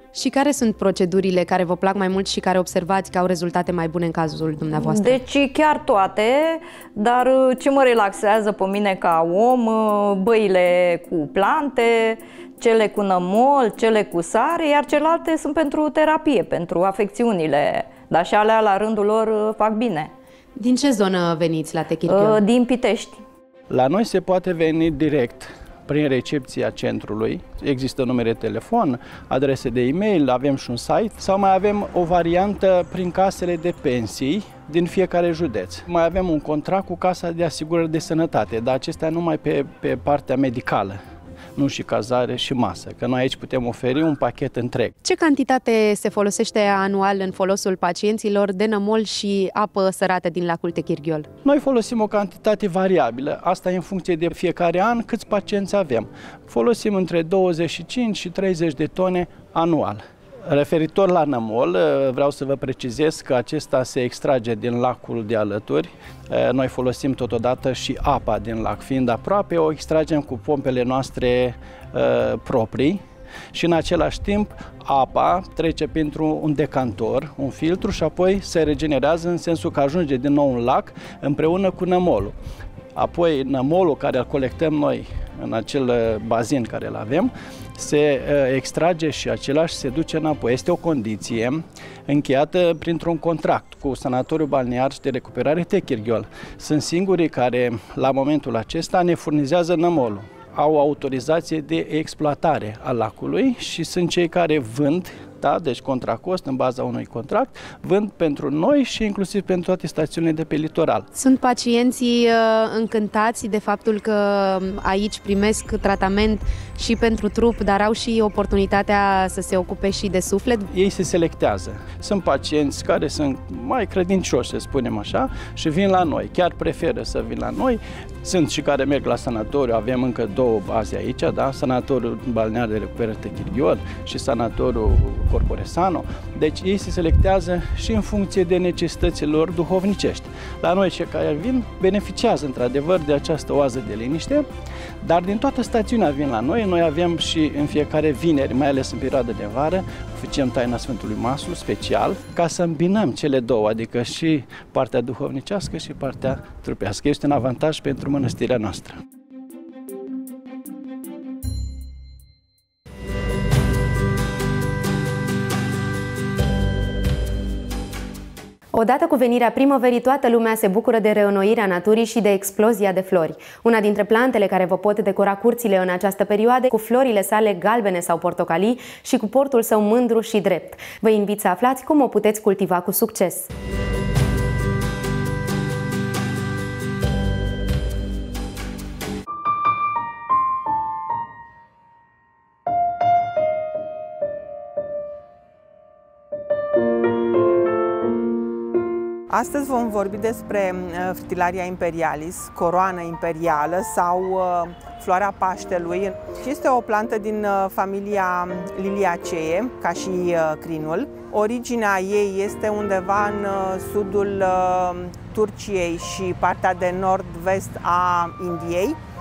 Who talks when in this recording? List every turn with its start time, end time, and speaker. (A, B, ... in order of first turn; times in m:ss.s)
0:00.1-0:05.2 A
0:04.8-0:20.1 B
0:20.6-0:22.4 A
0:22.1-0:23.2 B
0:23.7-0:41.0 C
0:41.6-0:44.9 C
0:45.0-0:51.3 A
0:51.4-1:13.0 C
1:13.5-1:22.3 C
1:22.9-1:51.1 C
1:51.1-2:00.7 A
2:00.7-2:24.5 C
2:25.0-2:39.0 C
2:48.7-3:03.5 A
3:19.3-3:39.0 D